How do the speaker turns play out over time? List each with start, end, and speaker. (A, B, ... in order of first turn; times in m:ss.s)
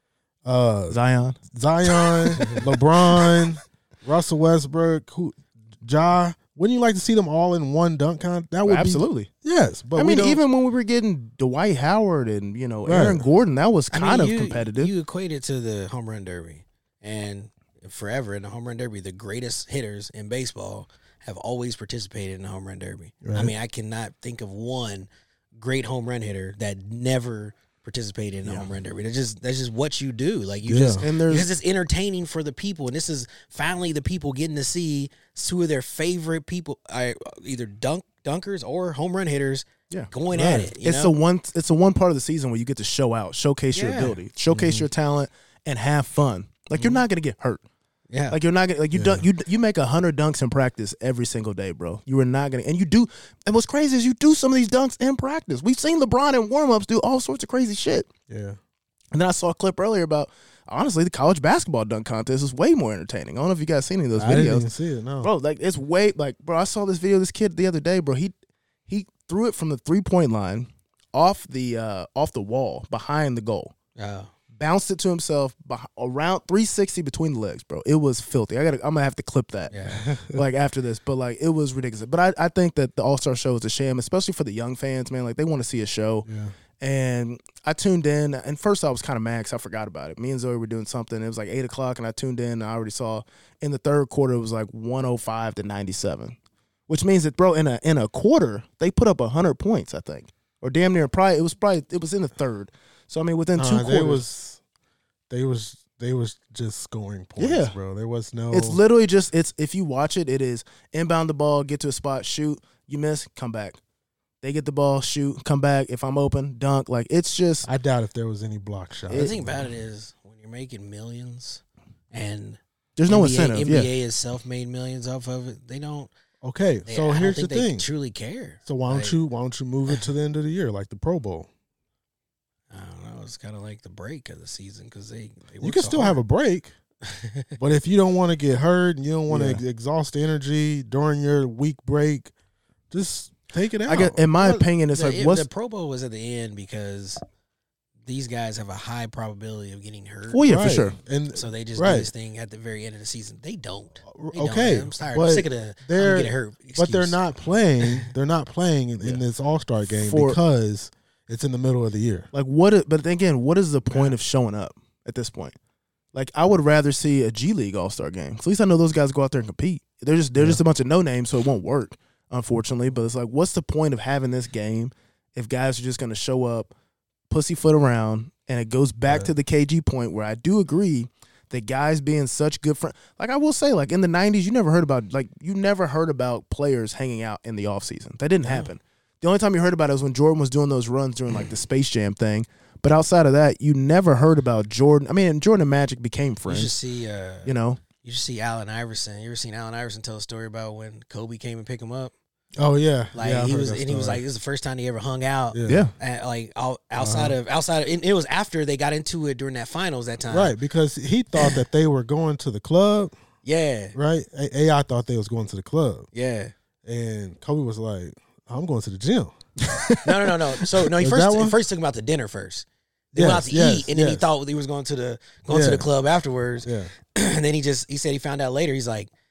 0:00.4-0:01.0 A
0:00.9-0:02.5 B
0:01.5-0:10.4 A
0:08.6-0:09.3 B
0:10.0-0:14.9 B
0:12.8-0:13.2 A
0:13.9-0:41.1 C
0:23.2-0:23.5 A
0:30.6-0:31.0 A
0:31.0-0:31.5 B
0:39.9-0:47.6 B
0:43.7-0:44.2 C
0:44.5-0:44.9 A
0:46.7-0:47.0 C
0:48.1-0:48.4 C
0:48.3-0:58.1 B
0:48.9-0:49.2 A
0:58.3-0:58.6 A
0:59.1-1:04.6 B
1:04.1-1:05.3 A
1:05.2-1:08.3 B
1:08.9-1:13.7 B
1:14.0-1:14.3 C
1:14.5-1:26.3 B
1:19.7-1:20.0 C
1:20.0-1:20.4 A
1:26.2-1:26.5 A
1:26.8-1:36.4 B
1:36.9-1:44.2 B
1:43.6-1:44.6 A
1:45.3-1:48.8 A
1:47.4-1:47.7 B
1:48.5-1:53.8 B
1:54.4-1:57.7 B
1:57.6-1:59.6 A
1:59.1-1:59.3 B
1:59.1-2:06.1 C
2:03.0-2:03.9 B
2:06.4-2:07.8 A
2:06.9-2:09.2 C
2:08.6-2:11.5 A
2:12.7-2:16.2 C
2:15.6-2:16.7 A
2:17.0-2:17.5 C
2:17.6-2:22.3 A
2:19.3-2:19.6 B
2:22.9-2:24.2 A
2:23.9-2:25.5 B
2:24.4-2:27.2 C
2:28.0-2:30.5 C
2:30.3-2:31.0 B
2:30.4-2:32.1 A
2:31.3-2:37.2 C
2:34.1-2:42.3 A
2:39.9-2:40.4 B
2:42.3-2:45.5 B
2:43.9-2:44.2 C
2:46.1-2:56.7 B
2:50.4-2:50.6 A
2:57.3-3:16.7 B
3:16.5-3:17.5 C
3:17.4-3:17.8 B
3:18.0-3:22.1 C
3:22.6-3:24.2 A
3:23.1-3:30.5 C
3:25.5-3:25.9 A
3:25.6-3:25.9 B
3:27.0-3:27.4 A
3:30.3-3:33.1 A
3:33.4-3:34.0 C
3:33.9-3:36.1 A
3:36.1-3:36.5 C
3:36.8-3:39.4 A
3:39.7-3:40.0 B
3:40.0-3:49.1 C
3:40.8-3:41.6 A
3:43.1-3:44.2 A
3:45.5-3:45.9 A
3:46.6-3:46.9 A